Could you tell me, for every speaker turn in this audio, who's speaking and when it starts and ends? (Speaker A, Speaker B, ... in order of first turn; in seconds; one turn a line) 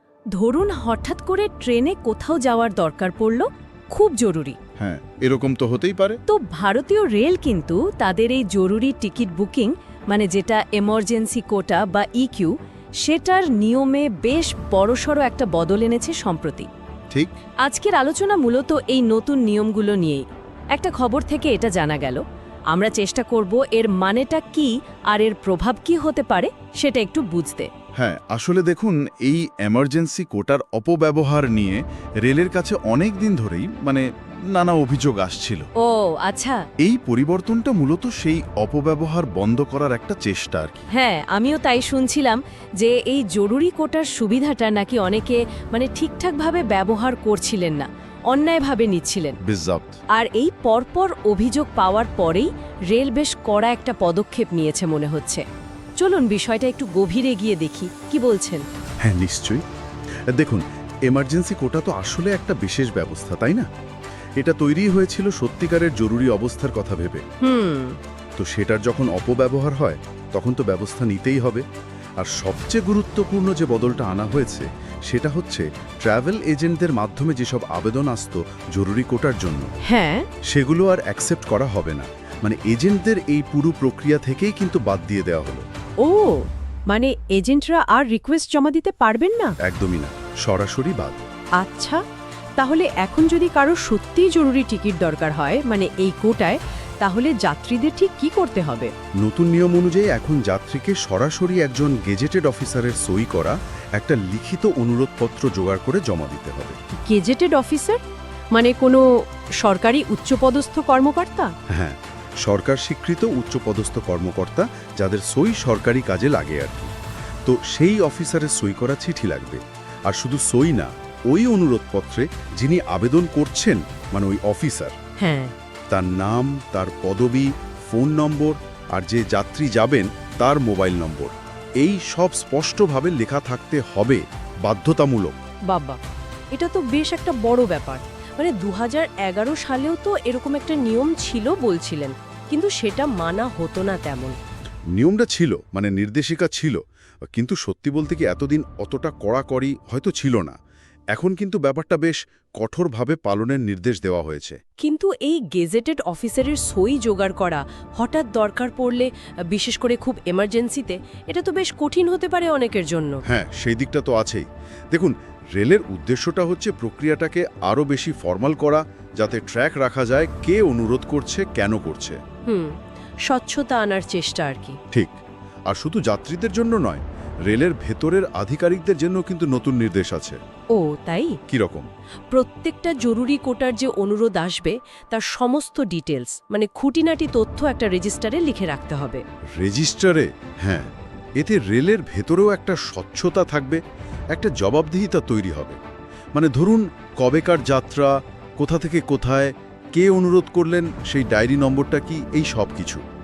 Speaker A: 0.3-4.6
Speaker B: 4.8-6.2
Speaker A: 6.3-16.7
Speaker A: 17.6-27.7
Speaker B: 28.0-35.7
Speaker A: 35.8-36.6
Speaker B: 36.8-40.9
Speaker A: 40.9-49.4
Speaker B: 49.5-50.0
Speaker A: 50.1-55.4
Speaker A: 56.0-58.6
Speaker B: 59.0-59.6
Speaker B: 60.3-63.7
Speaker B: 64.4-67.2
Speaker A: 67.4-68.0
Speaker B: 68.4-71.6
Speaker B: 72.2-79.7
Speaker A: 79.8-80.3
Speaker B: 80.5-85.6
Speaker A: 86.0-89.5
Speaker B: 89.6-91.2
Speaker A: 91.6-92.0
Speaker A: 92.6-98.9
Speaker B: 99.2-106.8
Speaker A: 106.9-108.0
Speaker A: 108.5-109.0
Speaker A: 109.6-111.5
Speaker B: 111.7-116.9
Speaker B: 117.5-124.9
Speaker A: 125.2-125.5
Speaker B: 125.9-135.4
Speaker A: 135.7-136.0
Speaker A: 136.5-144.3
Speaker B: 144.9-146.8
Speaker B: 147.3-150.6
Speaker B: 151.1-154.6
Speaker A: 154.8-163.2
Speaker B: 163.3-172.2
Speaker A: 172.5-172.8
Speaker A: 173.3-174.8
Speaker B: 175.7-180.4
Speaker A: 180.7-181.4
Speaker B: 181.5-181.9
Speaker A: 182.3-189.2
Speaker B: 189.6-193.8
Speaker B: 194.3-195.8
Speaker B: 196.3-203.0